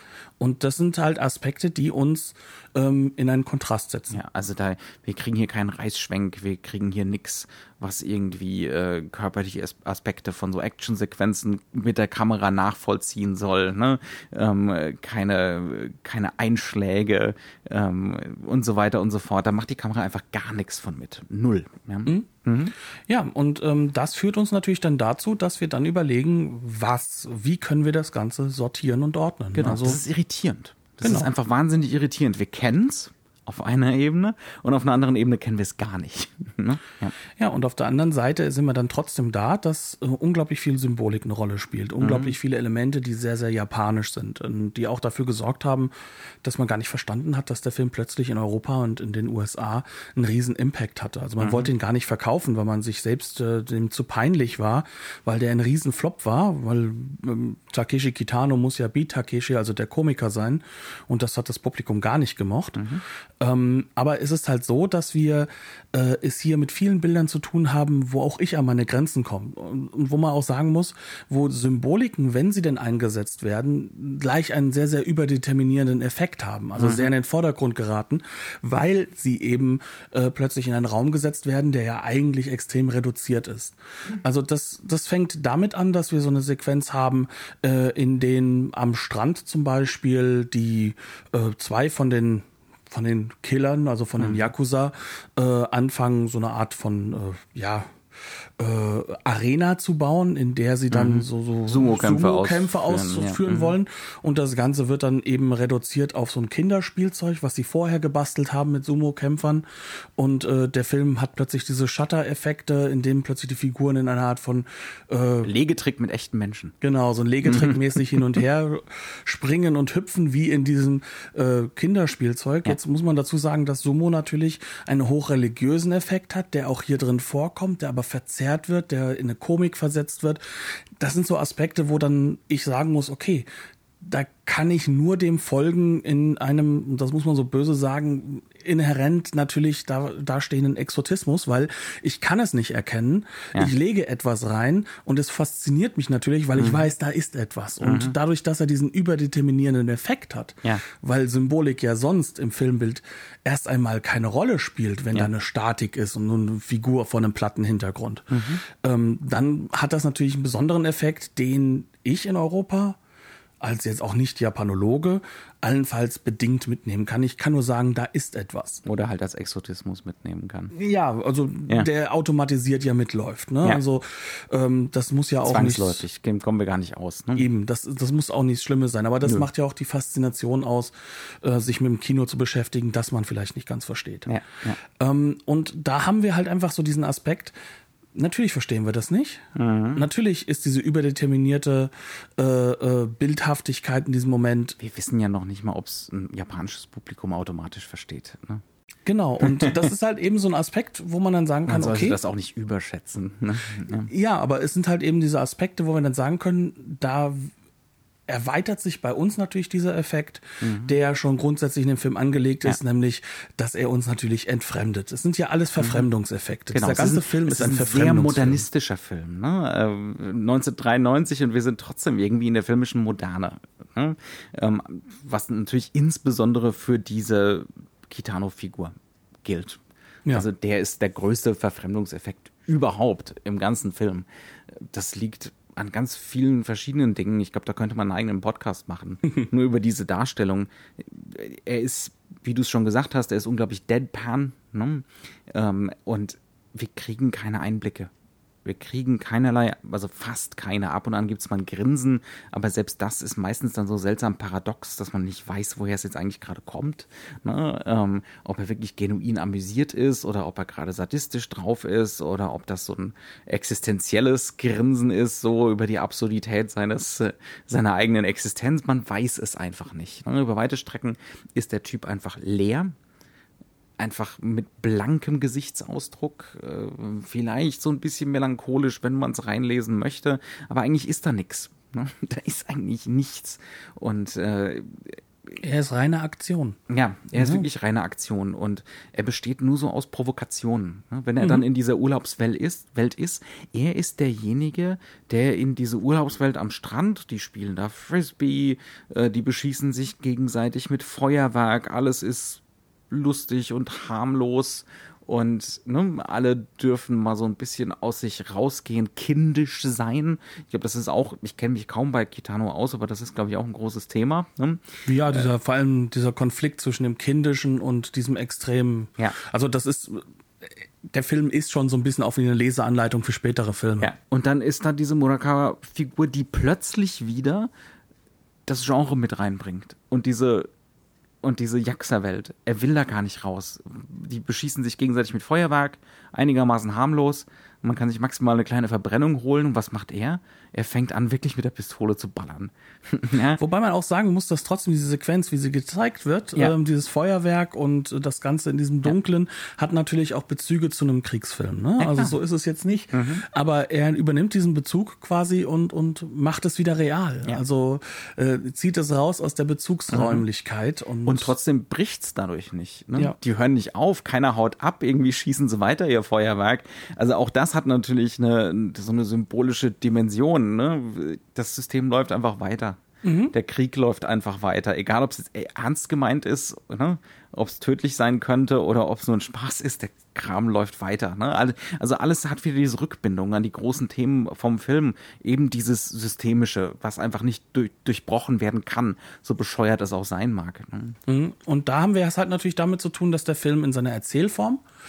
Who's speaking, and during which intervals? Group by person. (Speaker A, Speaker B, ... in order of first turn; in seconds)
Speaker A: 0.4-4.2, 23.1-30.0, 31.0-31.3, 37.4-45.9, 46.4-97.9, 98.6-109.6, 110.2-115.5, 116.8-133.5, 134.0-163.0, 163.6-168.8, 170.7-176.0, 177.3-184.3, 185.0-187.5, 188.1-194.8, 199.1-202.2, 204.1-207.5, 208.3-218.6, 285.6-286.8, 287.3-287.6, 315.0-324.1, 343.6-361.5, 373.2-373.5, 391.3-394.8
Speaker B: 4.1-22.7, 29.5-37.1, 42.0-42.3, 51.4-51.7, 62.8-63.0, 76.8-77.1, 94.2-94.5, 100.9-103.8, 115.4-116.7, 117.4-118.4, 146.6-146.8, 147.8-148.1, 158.3-158.6, 168.8-170.7, 175.4-177.5, 184.2-184.8, 189.5-190.1, 194.8-198.6, 199.4-199.9, 201.7-204.1, 210.6-210.9, 215.8-216.1, 216.7-229.8, 230.3-248.1, 248.6-272.9, 274.0-285.2, 286.9-315.5, 324.0-327.7, 328.6-330.7, 331.4-343.6, 352.0-352.4, 353.1-353.4, 360.1-360.4, 361.2-373.0, 373.5-391.2